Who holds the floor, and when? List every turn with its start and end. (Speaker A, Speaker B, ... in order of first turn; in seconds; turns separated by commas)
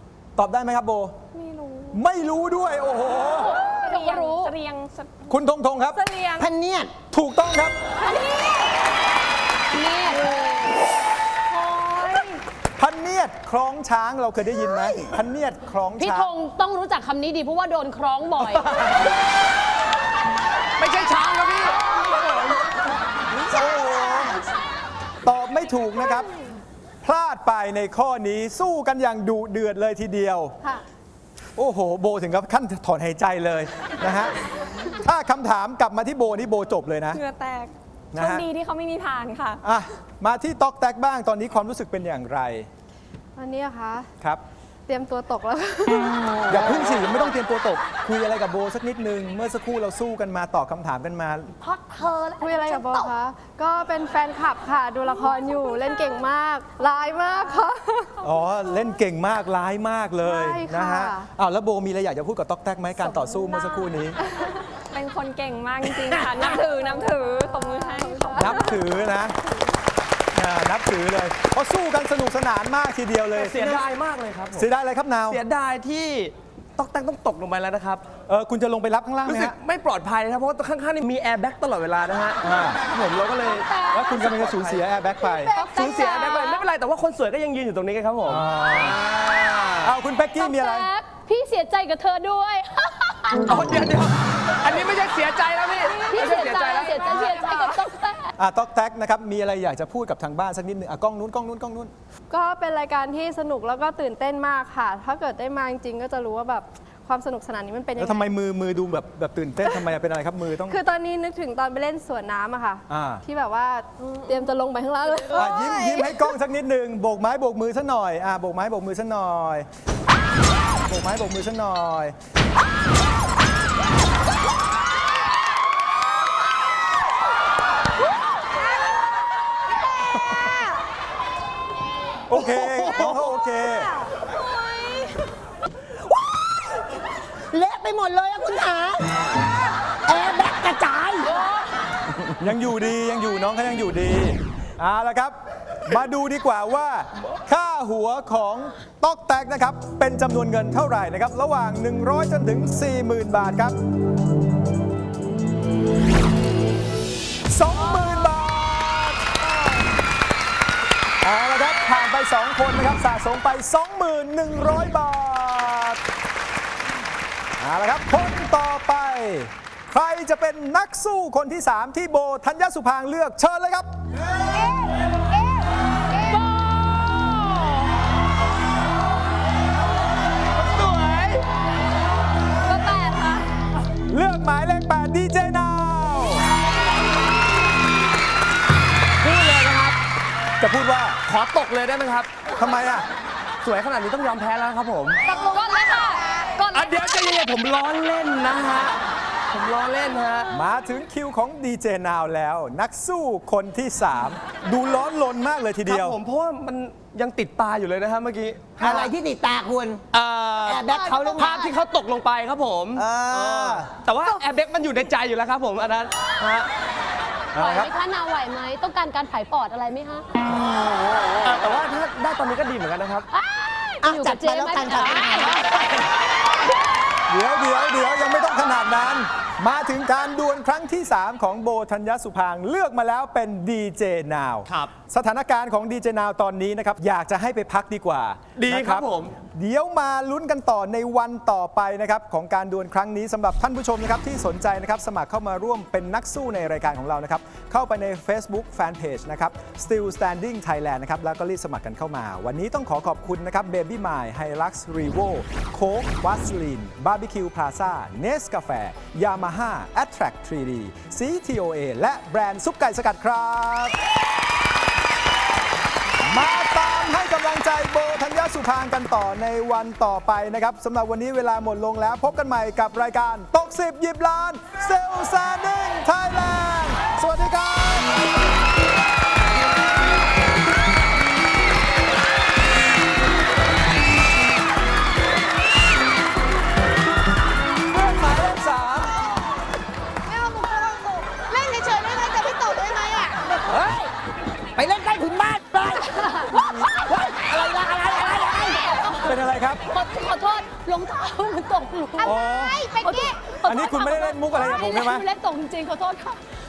Speaker A: 0.4-1.2, Speaker B: 1.3-2.0, Speaker A: 1.9-3.6, Speaker C: 3.3-4.5, Speaker B: 3.6-5.3, Speaker A: 5.3-6.0, Speaker B: 5.9-6.5, Speaker D: 6.4-6.9, Speaker A: 7.1-7.8, Speaker B: 8.0-8.6, Speaker C: 9.7-10.2, Speaker B: 10.1-10.8, Speaker B: 11.5-12.4, Speaker A: 12.8-16.3, Speaker C: 16.0-18.7, Speaker E: 18.4-19.0, Speaker E: 20.8-21.8, Speaker A: 23.5-24.4, Speaker A: 25.2-26.3, Speaker A: 27.0-30.6, Speaker A: 31.6-34.4, Speaker A: 34.9-37.2, Speaker B: 37.1-39.6, Speaker A: 38.1-38.5, Speaker A: 39.6-42.7, Speaker F: 43.4-44.1, Speaker F: 44.9-46.4, Speaker A: 46.5-51.5, Speaker G: 51.6-53.1, Speaker F: 52.4-58.2, Speaker B: 55.3-55.7, Speaker A: 58.2-64.2, Speaker F: 60.2-61.3, Speaker B: 63.5-63.9, Speaker B: 64.9-68.8, Speaker F: 66.4-68.7, Speaker A: 68.3-69.4, Speaker A: 70.3-73.8, Speaker E: 73.3-74.7, Speaker A: 74.5-75.4, Speaker E: 75.3-78.0, Speaker A: 78.3-79.6, Speaker E: 79.2-84.8, Speaker A: 82.4-82.8, Speaker C: 83.7-84.2, Speaker A: 83.9-85.5, Speaker B: 85.5-86.6, Speaker E: 85.6-88.5, Speaker A: 88.3-90.9, Speaker E: 89.4-89.9, Speaker C: 90.4-93.5, Speaker E: 93.5-97.3, Speaker B: 95.8-97.8, Speaker C: 96.1-98.3, Speaker A: 98.4-101.9, Speaker F: 102.3-108.3, Speaker A: 108.0-110.8, Speaker F: 110.7-116.2, Speaker A: 112.9-113.2, Speaker A: 115.3-119.7, Speaker A: 120.8-122.2, Speaker A: 132.3-133.9, Speaker E: 132.8-133.2, Speaker D: 137.5-139.1, Speaker D: 140.1-141.4, Speaker A: 142.4-153.8, Speaker A: 157.5-159.2, Speaker A: 161.2-166.0, Speaker A: 167.6-173.9, Speaker G: 174.4-176.4, Speaker E: 180.5-181.4, Speaker B: 182.6-183.5, Speaker A: 184.1-186.5, Speaker E: 189.2-190.0, Speaker A: 190.6-191.2, Speaker E: 191.3-192.3, Speaker A: 192.5-193.1, Speaker E: 193.6-195.2, Speaker B: 195.3-197.2, Speaker G: 195.3-196.4, Speaker E: 196.7-198.9, Speaker E: 199.5-200.5, Speaker A: 200.5-206.2, Speaker E: 205.9-209.1, Speaker D: 208.8-210.0, Speaker A: 208.8-209.1, Speaker E: 210.1-216.7, Speaker D: 210.6-211.7, Speaker A: 212.9-213.9, Speaker A: 217.6-217.9, Speaker C: 217.6-220.3, Speaker E: 221.4-223.3, Speaker C: 223.3-225.6, Speaker D: 224.0-226.1, Speaker A: 227.3-264.0, Speaker E: 238.6-239.3, Speaker A: 266.2-278.2, Speaker A: 287.9-289.1, Speaker G: 290.3-293.4, Speaker A: 293.7-294.0, Speaker D: 294.8-298.9, Speaker G: 298.9-299.2, Speaker A: 299.2-299.8, Speaker C: 299.9-302.4, Speaker G: 302.2-303.5, Speaker A: 302.2-302.8, Speaker C: 303.0-306.4, Speaker A: 303.6-305.2